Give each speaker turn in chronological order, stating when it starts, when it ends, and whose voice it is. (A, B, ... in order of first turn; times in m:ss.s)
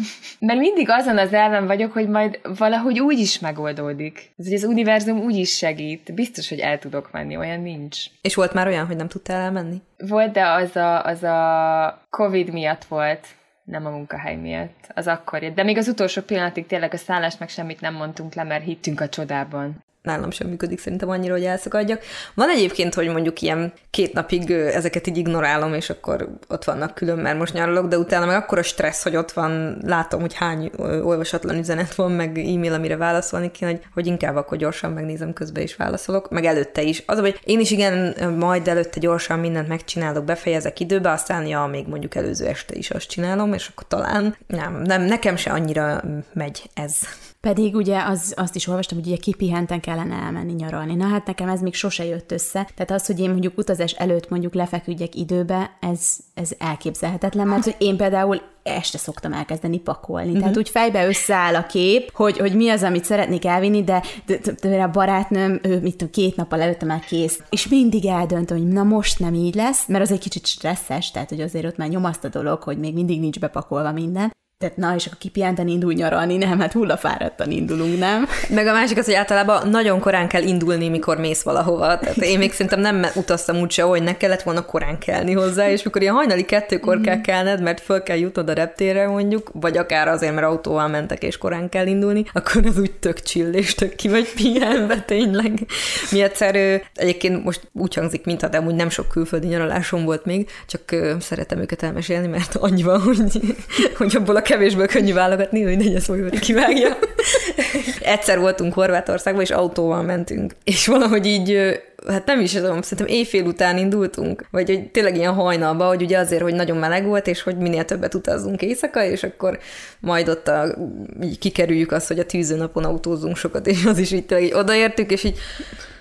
0:00.4-0:08.1 A
0:08.2-0:09.8 B
0:10.0-0:19.8 A
0:20.0-0:47.1 B
0:47.4-1:18.5 C
1:18.5-2:05.4 B